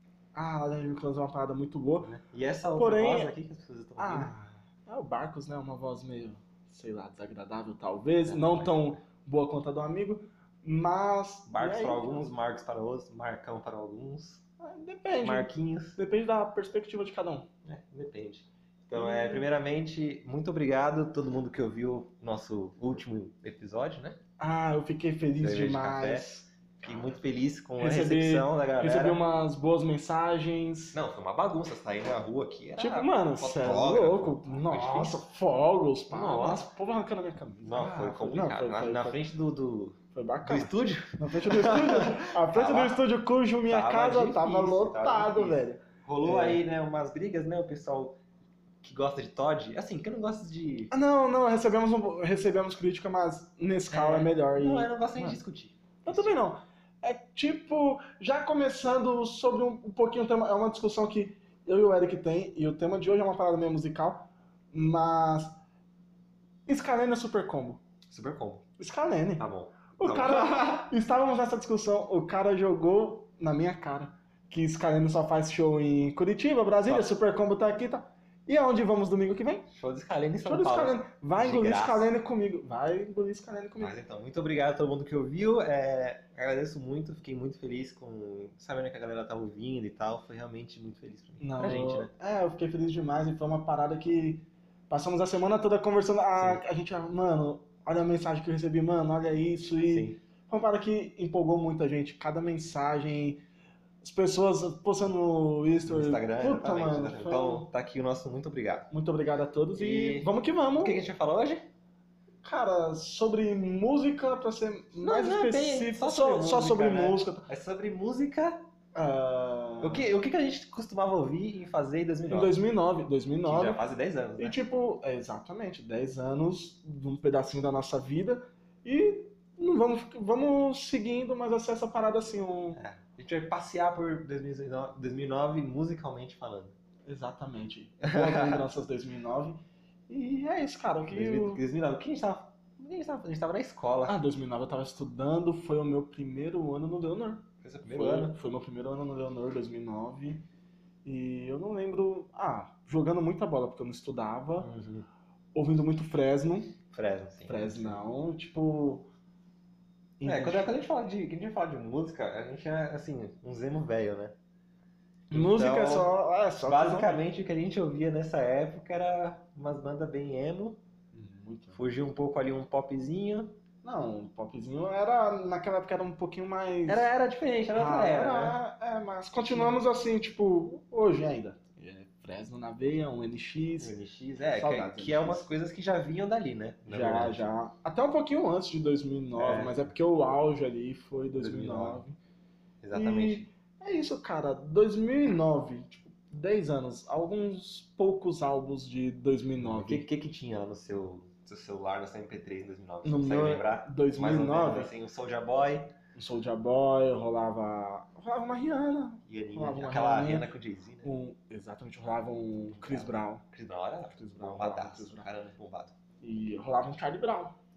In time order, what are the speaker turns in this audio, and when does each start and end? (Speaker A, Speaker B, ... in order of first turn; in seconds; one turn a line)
Speaker A: 0.3-2.1
Speaker B: 2.0-4.3
Speaker A: 2.8-3.3
Speaker A: 4.0-12.2
Speaker B: 8.2-8.9
Speaker B: 11.5-14.4
Speaker A: 14.6-17.5
Speaker B: 15.2-16.0
Speaker B: 17.6-24.2
Speaker A: 18.9-19.4
Speaker A: 24.4-27.1
Speaker B: 25.4-26.3
Speaker B: 26.8-29.2
Speaker A: 27.8-31.0
Speaker B: 30.9-35.1
Speaker A: 32.8-39.3
Speaker B: 36.1-36.6
Speaker B: 37.6-43.0
Speaker A: 40.1-46.6
Speaker B: 43.7-48.2
Speaker B: 48.8-50.9
Speaker A: 50.9-55.4
Speaker B: 53.9-56.4
Speaker A: 56.0-65.6
Speaker A: 66.7-67.8
Speaker B: 68.1-68.6
Speaker A: 68.8-79.7
Speaker B: 69.4-70.8
Speaker B: 79.7-82.1
Speaker A: 80.4-84.0
Speaker B: 83.8-92.1
Speaker A: 91.4-103.4
Speaker B: 96.4-96.6
Speaker B: 99.8-100.2
Speaker A: 104.0-107.7
Speaker B: 105.8-108.9
Speaker A: 108.9-111.0
Speaker B: 109.7-111.7
Speaker A: 112.4-117.5
Speaker B: 115.0-118.6
Speaker A: 118.9-120.1
Speaker B: 119.8-122.5
Speaker A: 122.3-123.8
Speaker B: 123.4-124.6
Speaker A: 124.4-132.8
Speaker B: 132.7-136.7
Speaker A: 137.1-141.6
Speaker B: 138.0-138.6
Speaker B: 141.1-144.2
Speaker A: 144.1-150.4
Speaker B: 147.6-148.4
Speaker A: 151.0-154.7
Speaker B: 154.6-155.1
Speaker A: 155.5-156.8
Speaker B: 156.9-158.0
Speaker A: 157.5-159.1
Speaker A: 160.2-160.8
Speaker B: 160.2-164.3
Speaker A: 165.3-167.2
Speaker B: 165.3-170.8
Speaker A: 171.1-171.8
Speaker B: 171.7-173.5
Speaker A: 173.8-177.1
Speaker B: 176.9-178.6
Speaker A: 177.7-183.9
Speaker B: 179.4-179.8
Speaker B: 183.8-187.5
Speaker A: 184.4-185.5
Speaker A: 186.9-192.2
Speaker B: 189.3-189.8
Speaker B: 191.3-192.0
Speaker B: 192.8-193.5
Speaker A: 192.9-200.1
Speaker B: 199.6-205.9
Speaker A: 203.0-204.9
Speaker A: 206.1-210.5
Speaker B: 209.3-211.1
Speaker A: 211.0-213.4
Speaker B: 212.7-215.9
Speaker A: 214.1-215.2
Speaker A: 216.2-217.6